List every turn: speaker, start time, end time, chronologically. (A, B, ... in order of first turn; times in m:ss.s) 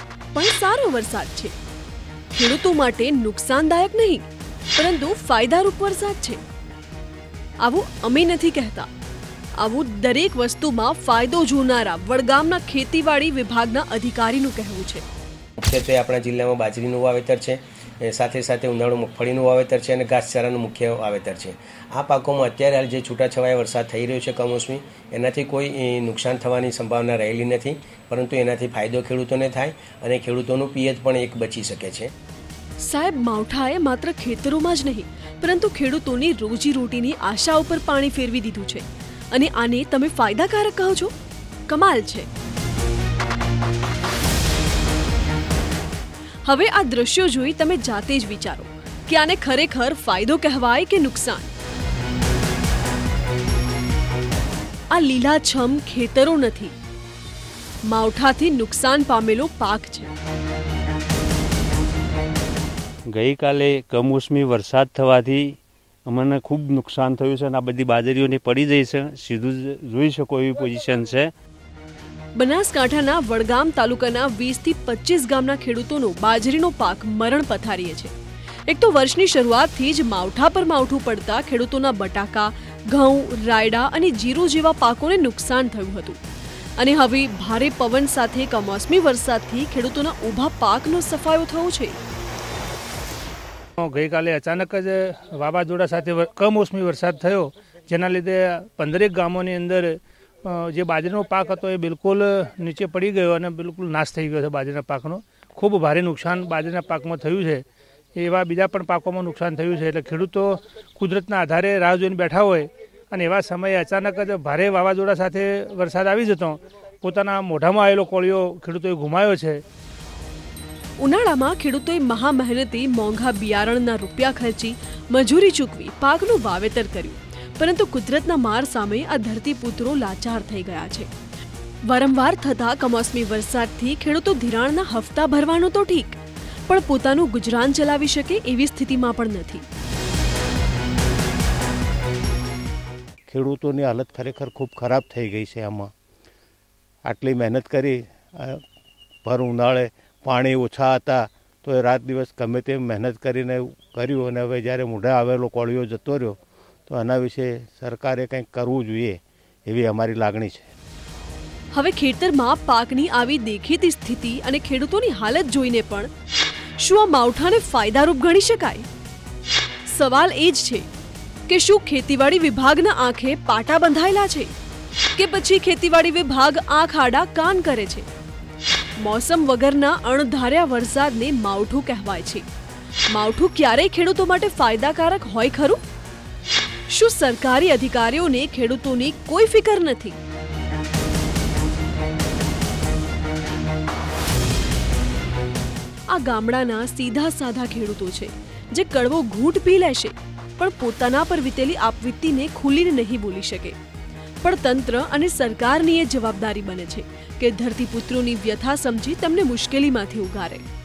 0:00.3-0:01.5 A
0:02.3-0:06.4 A
0:07.6-0:08.9 A
0:09.6-0:15.0 A
0:15.6-0:32.1 B
0:32.8-0:41.1 A
0:41.7-0:42.3 A
0:46.4-0:51.5 A
0:54.9-0:56.7 A
0:57.8-1:00.1 A
1:03.1-1:11.3 C
1:12.4-1:18.1 A
1:18.7-1:26.2 A
1:26.8-1:32.0 A
1:33.8-1:47.6 D
1:48.2-1:59.6 D
2:01.0-2:11.1 A
2:11.9-2:19.6 A
2:23.3-2:25.9 E
2:27.0-2:28.6 E
2:29.2-2:40.6 E
2:41.7-2:46.1 A
2:46.8-2:48.9 A
2:49.9-2:50.9 A
2:51.5-2:54.5 A
2:55.2-2:58.1 A
2:59.0-3:02.4 A
3:03.1-3:05.8 A
3:06.9-3:10.2 A
3:16.1-3:23.8 A
3:24.4-3:30.6 A